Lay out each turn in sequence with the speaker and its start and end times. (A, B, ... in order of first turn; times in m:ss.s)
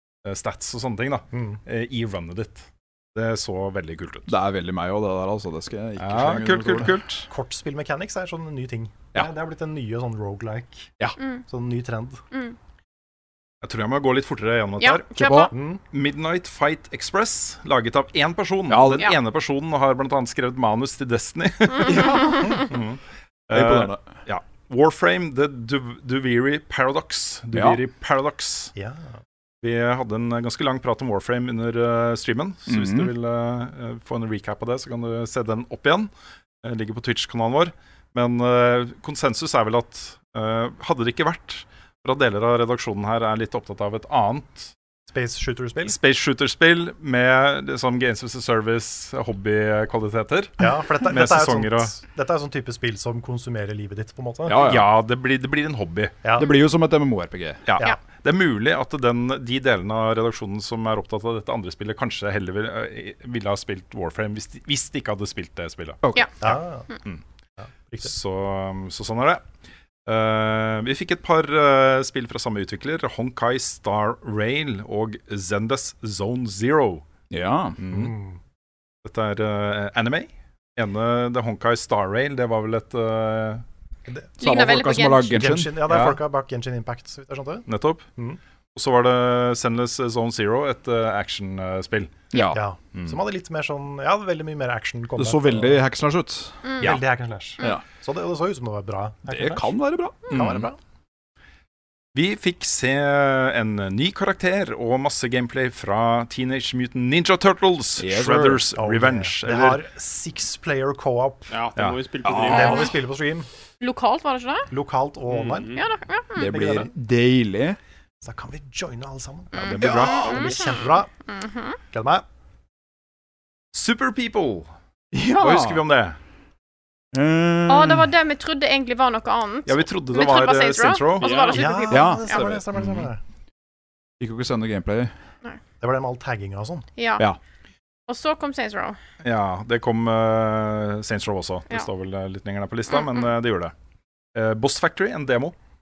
0:00.2-0:04.3 A
0:01.3-0:01.6 B
0:04.3-0:07.0 C
0:06.0-0:07.3 A
0:07.3-0:10.9 B
0:11.5-0:12.2 B
0:13.6-0:15.1 A
0:14.8-0:15.5 D
0:15.2-0:15.5 C
0:15.5-0:15.8 B
0:15.9-0:28.7 A
0:18.7-0:19.1 C
0:21.8-0:22.6 C
0:21.9-0:22.6 D
0:23.5-0:24.0 C
0:27.5-0:27.8 C
0:28.8-0:29.1 B
0:29.6-0:36.1 A
0:32.7-0:33.1 C
0:36.6-0:44.7 A
0:45.1-0:46.0 B
0:45.8-0:51.9 A
0:50.6-0:54.7 B
0:54.4-0:54.9 C
0:54.6-0:56.2 A
0:56.2-0:56.5 B
0:56.4-0:57.7 C
0:57.7-1:06.0 A
1:06.0-1:06.5 C
1:06.4-1:06.9 B
1:07.6-1:08.1 B
1:08.0-1:09.4 A
1:10.0-1:17.0 A
1:17.3-1:17.8 C
1:17.8-1:18.1 A
1:17.9-1:18.4 B
1:19.0-1:23.6 A
1:24.1-1:24.3 B
1:24.4-1:25.3 D
1:24.4-1:25.9 C
1:25.3-1:28.4 B
1:25.9-1:26.2 A
1:27.7-1:28.0 A
1:28.7-1:32.1 A
1:32.3-1:32.6 C
1:32.5-1:35.8 B
1:32.9-1:33.2 A
1:35.2-1:37.0 C
1:36.8-1:39.8 B
1:39.3-1:40.5 C
1:40.3-1:40.8 B
1:40.3-1:40.6 A
1:42.1-1:49.8 A
1:48.0-1:48.7 C
1:48.7-1:51.6 B
1:51.5-1:52.9 E
1:52.2-1:53.0 C
1:52.4-1:53.5 B
1:53.8-1:54.7 D
1:54.7-1:55.8 B
1:55.3-1:55.8 E
1:55.8-1:56.5 D
1:56.3-1:57.8 C
1:56.5-1:56.9 B
1:58.2-2:01.1 B
1:59.5-2:01.8 D
1:59.6-2:00.2 A
1:59.8-2:00.3 C
2:00.2-2:00.8 E
2:01.9-2:02.2 B
2:03.7-2:04.7 A
2:05.1-2:05.8 C
2:05.4-2:06.2 A
2:07.1-2:08.1 C
2:07.7-2:12.5 D
2:09.6-2:11.4 A
2:11.2-2:11.8 E
2:11.5-2:13.2 B
2:11.9-2:13.0 C
2:14.2-2:15.1 C
2:15.8-2:16.9 B
2:17.0-2:17.3 D
2:18.1-2:19.0 D
2:19.2-2:23.7 A
2:22.9-2:23.2 D
2:24.3-2:25.5 A